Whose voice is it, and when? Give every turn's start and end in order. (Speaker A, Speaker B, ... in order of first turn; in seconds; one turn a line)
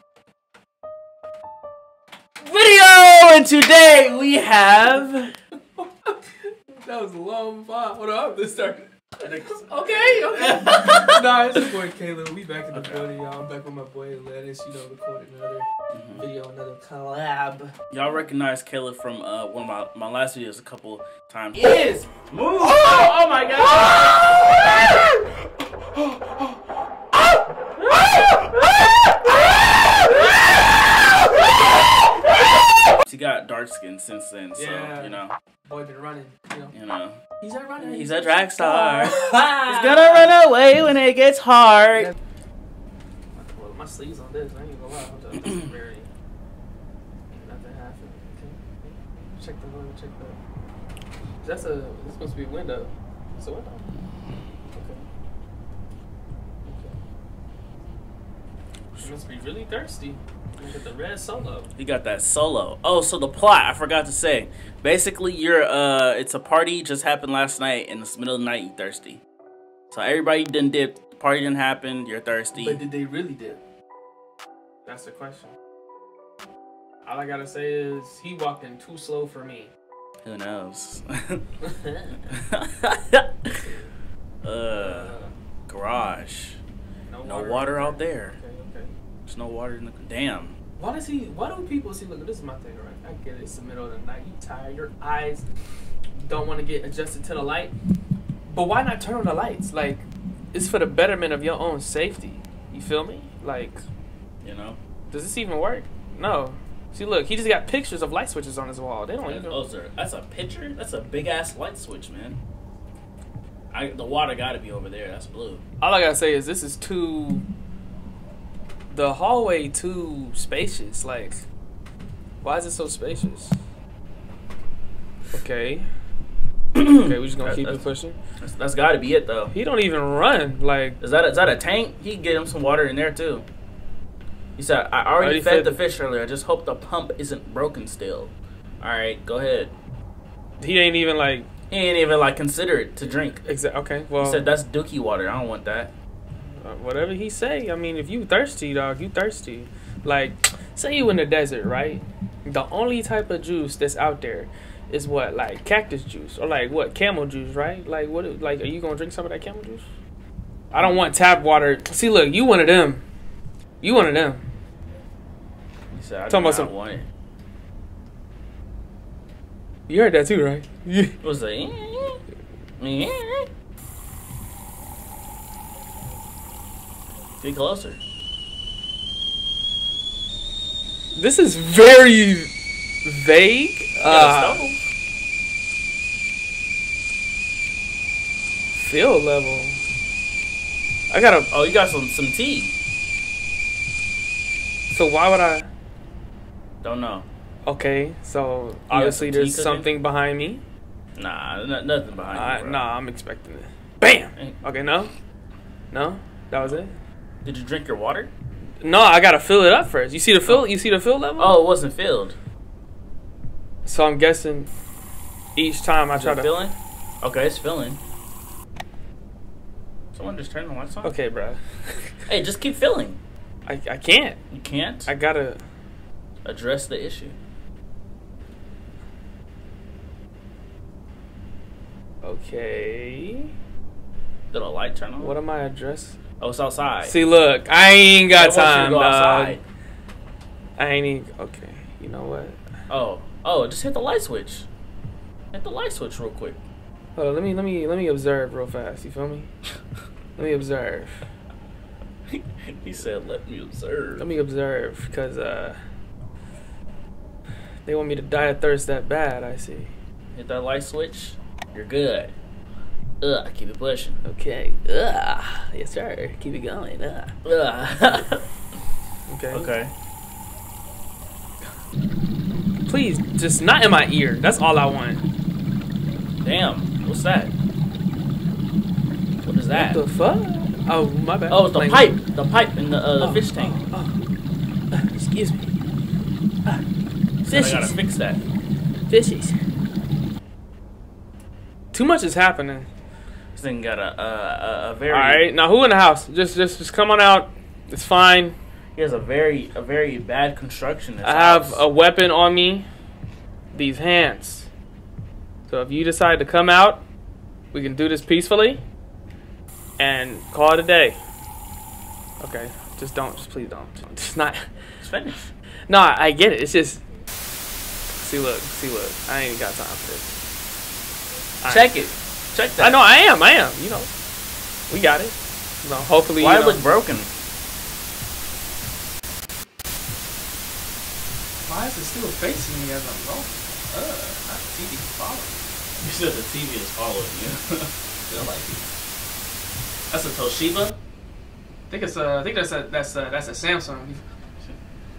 Speaker A: 2.5-5.3
Speaker B: 5.8-6.1
Speaker B: 6.8-17.7
Speaker A: 9.2-11.2
Speaker A: 12.7-13.1
Speaker A: 15.9-16.2
Speaker A: 17.9-24.5
Speaker B: 26.0-26.4
Speaker A: 33.0-35.4
Speaker B: 34.5-36.7
Speaker A: 36.7-37.2
Speaker B: 37.4-40.3
Speaker A: 37.8-42.1
Speaker B: 43.4-46.1
Speaker B: 47.3-50.4
Speaker B: 51.4-53.9
Speaker B: 54.7-55.0
Speaker B: 56.6-57.0
Speaker B: 59.0-61.7
Speaker A: 61.8-69.2
Speaker A: 69.9-72.8
Speaker B: 72.5-73.6
Speaker B: 74.9-75.5
Speaker B: 77.0-79.7
Speaker A: 80.2-81.4
Speaker A: 82.3-83.6
Speaker A: 84.4-85.2
Speaker B: 84.7-85.3
Speaker A: 85.7-86.6
Speaker B: 87.1-88.9
Speaker A: 87.2-88.4
Speaker A: 89.3-90.6
Speaker B: 90.8-95.4
Speaker B: 96.2-97.7
Speaker B: 98.5-103.8
Speaker A: 104.4-104.8
Speaker B: 105.1-109.6
Speaker A: 109.3-112.4
Speaker A: 113.7-115.6
Speaker B: 115.8-117.5
Speaker B: 118.9-121.5
Speaker B: 122.4-123.6
Speaker B: 125.3-125.9
Speaker A: 126.7-127.8
Speaker B: 126.8-128.2
Speaker A: 128.4-129.5
Speaker B: 129.5-131.0
Speaker A: 131.0-133.5
Speaker A: 134.6-139.7
Speaker B: 135.2-135.8
Speaker B: 140.6-141.5
Speaker A: 141.7-143.4
Speaker B: 143.4-144.5
Speaker A: 144.2-145.9
Speaker B: 146.6-159.8
Speaker A: 160.7-161.0
Speaker B: 160.7-163.0
Speaker B: 163.8-164.4
Speaker A: 165.9-167.1
Speaker B: 166.3-166.7
Speaker B: 169.9-171.2
Speaker A: 171.2-172.2
Speaker A: 172.8-173.5
Speaker A: 177.4-178.0
Speaker B: 181.1-182.5
Speaker B: 183.1-184.6
Speaker A: 184.0-184.8
Speaker B: 188.7-189.8
Speaker B: 191.1-191.5
Speaker A: 191.5-192.7
Speaker B: 194.9-195.7
Speaker A: 196.8-197.3
Speaker B: 197.7-200.6
Speaker A: 198.9-199.9
Speaker A: 201.2-202.8
Speaker B: 202.3-205.1
Speaker B: 205.9-206.9
Speaker A: 207.4-208.3
Speaker B: 208.8-211.6
Speaker A: 210.4-210.7
Speaker A: 211.4-212.4
Speaker B: 213.8-214.7
Speaker B: 215.6-216.5
Speaker A: 216.1-218.0
Speaker A: 220.1-221.2
Speaker B: 221.0-222.2
Speaker A: 222.3-223.2
Speaker B: 223.7-224.4
Speaker A: 224.5-225.1
Speaker B: 225.1-225.6
Speaker A: 226.4-227.4
Speaker B: 232.2-233.5
Speaker A: 234.5-235.4
Speaker B: 235.2-236.2
Speaker A: 236.4-237.2
Speaker B: 237.0-239.6
Speaker A: 238.3-239.6
Speaker B: 240.8-242.6
Speaker A: 242.9-244.7
Speaker A: 245.5-246.6
Speaker B: 247.2-249.5
Speaker B: 250.4-251.2
Speaker A: 252.3-254.3
Speaker B: 254.2-255.8
Speaker B: 257.9-259.9
Speaker A: 260.4-262.3
Speaker A: 263.2-264.2
Speaker B: 264.2-267.3
Speaker A: 267.4-268.4
Speaker B: 269.3-269.7
Speaker A: 269.5-269.9
Speaker B: 272.9-275.2
Speaker A: 276.4-277.5
Speaker A: 279.4-280.0
Speaker B: 279.7-282.1
Speaker A: 281.5-283.8
Speaker B: 283.2-284.2
Speaker B: 284.9-285.7
Speaker A: 287.4-288.4
Speaker B: 287.5-287.9
Speaker B: 289.1-289.6
Speaker B: 291.9-292.9
Speaker A: 293.6-295.4
Speaker B: 295.1-298.6
Speaker A: 299.0-301.8
Speaker B: 301.2-302.9
Speaker B: 303.7-304.7
Speaker B: 305.7-307.0
Speaker B: 307.7-308.8
Speaker B: 310.0-311.2
Speaker B: 312.4-314.7
Speaker A: 315.0-315.5
Speaker B: 315.9-317.0
Speaker B: 318.2-320.3
Speaker B: 321.6-322.1
Speaker A: 321.7-323.0
Speaker B: 322.8-324.1
Speaker B: 324.9-326.8
Speaker A: 326.4-327.3
Speaker B: 331.7-335.7
Speaker A: 336.0-338.9
Speaker A: 340.1-341.0
Speaker B: 341.9-344.2